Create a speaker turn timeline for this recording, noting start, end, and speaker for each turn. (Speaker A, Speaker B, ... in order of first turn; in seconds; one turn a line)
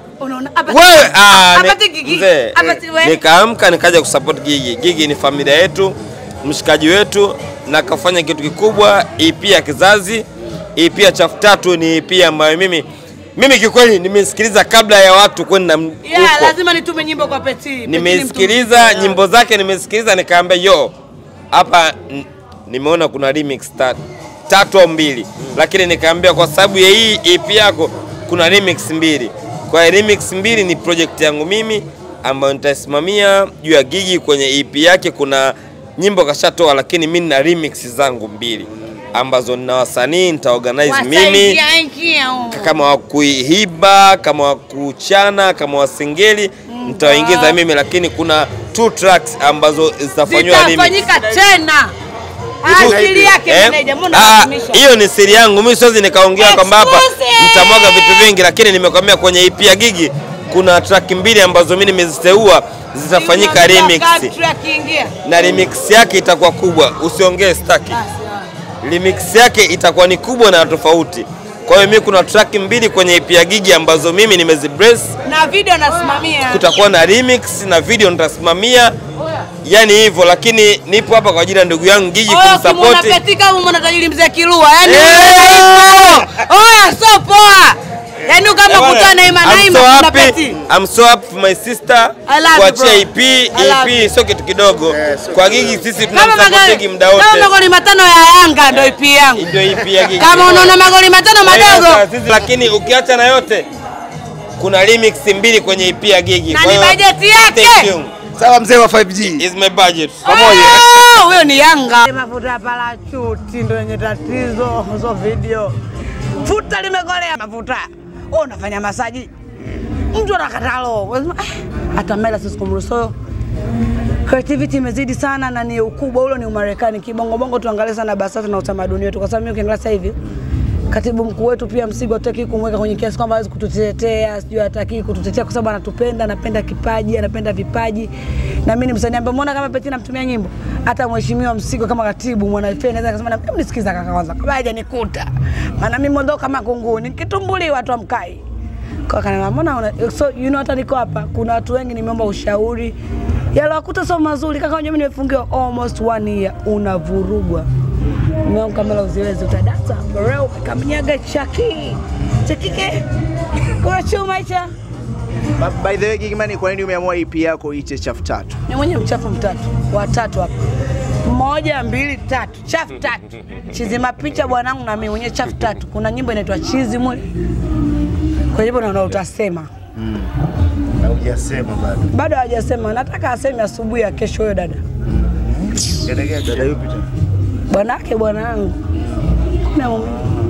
Speaker A: 0.2-3.2
Speaker B: 0.7-16.5
Speaker A: 16.0-19.2
Speaker B: 17.9-20.9
Speaker B: 21.5-41.6
Speaker A: 40.9-42.7
Speaker B: 42.5-51.0
Speaker A: 46.7-47.6
Speaker A: 50.3-51.9
Speaker A: 52.6-54.8
Speaker B: 52.7-64.3
Speaker C: 52.7-53.3
Speaker A: 56.4-58.3
Speaker A: 63.1-65.1
Speaker B: 65.2-68.0
Speaker A: 67.9-68.3
Speaker B: 68.8-75.1
Speaker A: 75.2-76.7
Speaker B: 76.5-78.9
Speaker B: 79.6-83.2
Speaker A: 82.3-90.6
Speaker B: 84.8-86.3
Speaker B: 88.7-97.5
Speaker A: 92.3-94.1
Speaker C: 94.9-95.9
Speaker A: 96.1-99.5
Speaker B: 99.3-100.8
Speaker A: 100.1-102.0
Speaker B: 101.4-103.7
Speaker B: 104.6-108.1
Speaker A: 106.5-107.9
Speaker C: 108.3-109.5
Speaker B: 109.3-110.2
Speaker C: 110.3-110.8
Speaker A: 110.3-115.8
Speaker A: 116.4-119.3
Speaker A: 120.1-123.2
Speaker A: 124.2-130.2
Speaker A: 130.9-138.1
Speaker A: 138.6-148.4
Speaker A: 149.1-153.0
Speaker A: 153.5-157.7
Speaker A: 158.4-163.0
Speaker A: 163.7-164.7
Speaker D: 165.6-168.6
Speaker A: 168.7-170.5
Speaker A: 171.2-177.3
Speaker A: 178.5-179.7
Speaker C: 180.0-180.3
Speaker C: 181.0-182.1
Speaker A: 182.1-184.8
Speaker C: 185.2-187.0
Speaker A: 187.7-188.8
Speaker A: 189.6-190.2